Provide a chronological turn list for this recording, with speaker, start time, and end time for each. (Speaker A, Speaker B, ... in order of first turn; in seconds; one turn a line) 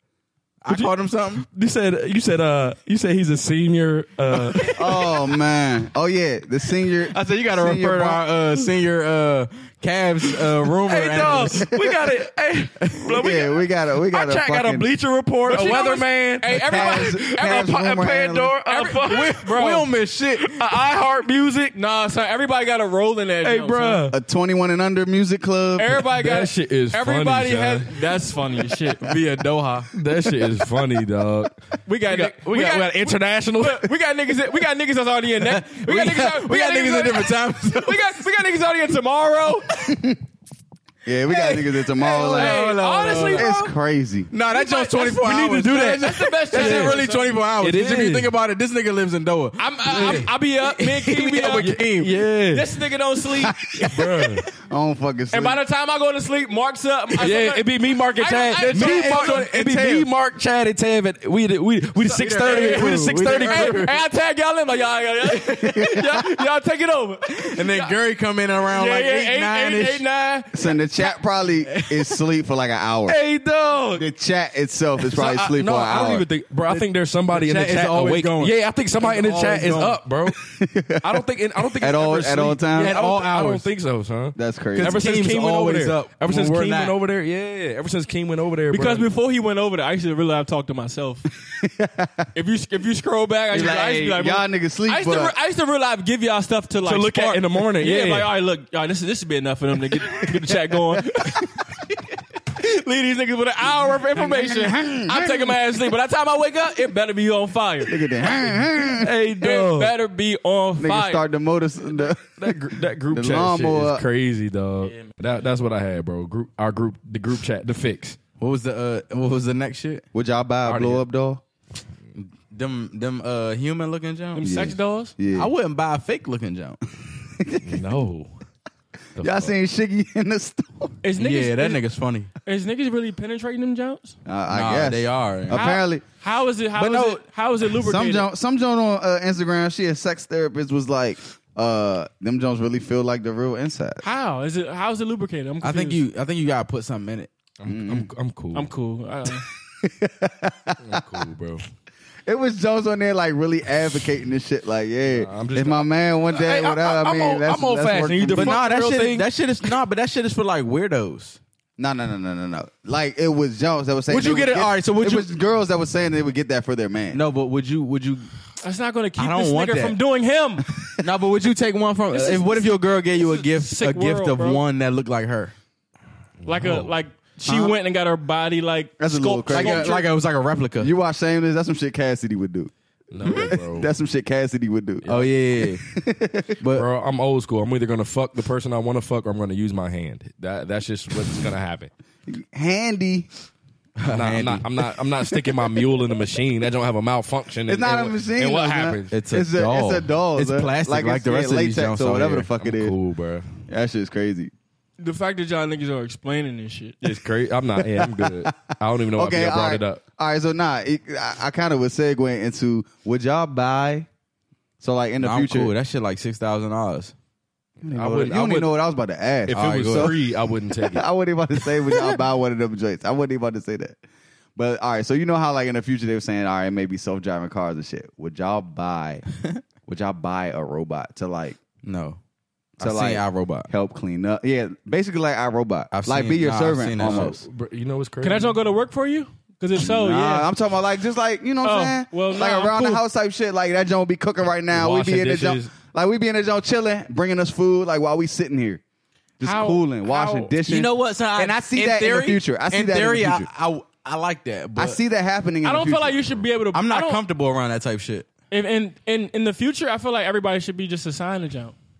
Speaker A: 0.6-1.4
Speaker B: 0.7-4.9
Speaker C: 4.7-8.2
Speaker A: 7.1-11.7
Speaker B: 10.2-19.8
Speaker C: 13.1-14.9
Speaker D: 15.5-17.8
Speaker C: 15.5-15.9
Speaker C: 16.4-18.6
Speaker D: 18.6-19.9
Speaker A: 19.4-20.6
Speaker B: 20.4-21.8
Speaker D: 21.7-24.0
Speaker B: 23.4-24.2
Speaker C: 24.1-25.9
Speaker D: 25.8-29.2
Speaker B: 25.9-27.9
Speaker A: 28.9-29.9
Speaker B: 29.9-33.9
Speaker D: 31.9-39.9
Speaker A: 35.4-38.0
Speaker C: 39.8-40.2
Speaker C: 41.0-42.8
Speaker D: 41.3-43.8
Speaker A: 42.0-43.5
Speaker C: 43.3-44.3
Speaker A: 44.3-52.1
Speaker D: 44.5-47.4
Speaker B: 45.2-47.0
Speaker B: 47.6-48.3
Speaker D: 49.6-51.8
Speaker B: 49.9-50.3
Speaker B: 51.4-52.7
Speaker D: 52.5-54.2
Speaker C: 53.4-55.6
Speaker B: 53.9-54.4
Speaker D: 55.3-59.5
Speaker B: 57.2-63.9
Speaker A: 58.6-60.1
Speaker D: 62.1-68.0
Speaker A: 62.1-63.9
Speaker C: 65.6-66.1
Speaker A: 67.4-70.0
Speaker D: 68.7-71.1
Speaker C: 70.5-73.2
Speaker B: 73.1-74.1
Speaker C: 73.9-76.2
Speaker B: 75.0-80.4
Speaker A: 76.7-80.0
Speaker C: 80.4-81.2
Speaker B: 81.0-89.1
Speaker C: 81.8-83.0
Speaker A: 82.8-83.7
Speaker C: 84.3-85.0
Speaker A: 84.8-86.9
Speaker D: 88.7-91.2
Speaker C: 91.5-92.2
Speaker D: 92.3-101.5
Speaker C: 93.5-95.3
Speaker B: 96.8-98.3
Speaker D: 102.5-108.1
Speaker C: 104.1-105.5
Speaker C: 107.9-109.1
Speaker B: 108.9-110.0
Speaker D: 109.4-111.2
Speaker C: 110.8-112.6
Speaker B: 112.1-118.2
Speaker C: 113.1-114.0
Speaker A: 118.4-120.0
Speaker C: 120.1-121.4
Speaker B: 120.6-121.0
Speaker A: 122.1-124.5
Speaker D: 124.3-125.1
Speaker C: 124.4-125.5
Speaker A: 125.3-126.8
Speaker C: 127.4-127.8
Speaker B: 127.6-128.3
Speaker B: 129.2-129.5
Speaker C: 129.2-131.0
Speaker D: 131.0-131.8
Speaker A: 131.2-132.3
Speaker D: 132.4-134.2
Speaker C: 134.2-136.0
Speaker A: 134.5-135.7
Speaker D: 135.5-138.3
Speaker A: 136.8-137.2
Speaker C: 137.7-144.0
Speaker D: 144.0-146.0
Speaker A: 145.6-147.3
Speaker B: 147.6-148.7
Speaker C: 147.7-148.1
Speaker D: 148.5-149.5
Speaker C: 149.8-150.8
Speaker B: 150.8-151.6
Speaker C: 152.2-158.6
Speaker B: 155.1-159.3
Speaker A: 158.3-161.4
Speaker C: 161.8-167.2
Speaker A: 164.1-165.3
Speaker A: 167.1-168.3
Speaker D: 168.6-170.7
Speaker A: 169.2-170.0
Speaker A: 171.0-175.5
Speaker D: 172.1-174.6
Speaker B: 176.4-176.9
Speaker D: 176.4-180.1
Speaker A: 177.5-177.8
Speaker C: 179.0-180.0
Speaker A: 179.5-180.9
Speaker C: 180.8-182.7
Speaker B: 183.1-183.9
Speaker C: 183.2-186.6
Speaker B: 185.0-185.3
Speaker A: 185.1-185.8
Speaker A: 186.6-186.9
Speaker B: 186.7-191.9
Speaker C: 192.3-193.3
Speaker A: 194.0-194.7
Speaker B: 194.1-199.1
Speaker C: 197.7-202.9
Speaker A: 199.1-202.5
Speaker B: 202.6-203.5
Speaker C: 203.7-204.5
Speaker D: 205.0-207.0
Speaker B: 207.0-210.0
Speaker C: 207.8-214.1
Speaker C: 214.8-215.7
Speaker A: 215.2-217.1
Speaker C: 217.8-220.2
Speaker B: 217.9-218.7
Speaker B: 219.5-221.1
Speaker A: 219.5-220.1
Speaker C: 220.8-224.0
Speaker C: 224.6-229.2
Speaker C: 229.9-231.6
Speaker A: 231.8-232.2
Speaker C: 232.8-237.4
Speaker A: 232.8-233.7
Speaker A: 235.9-237.4
Speaker B: 237.0-238.6
Speaker D: 238.2-240.5
Speaker C: 239.8-248.8
Speaker D: 241.6-243.0
Speaker B: 244.7-245.7
Speaker C: 249.4-253.5
Speaker D: 249.4-250.5
Speaker A: 250.7-255.0
Speaker C: 254.8-256.4
Speaker D: 255.6-257.2
Speaker A: 256.7-258.3
Speaker D: 258.5-261.8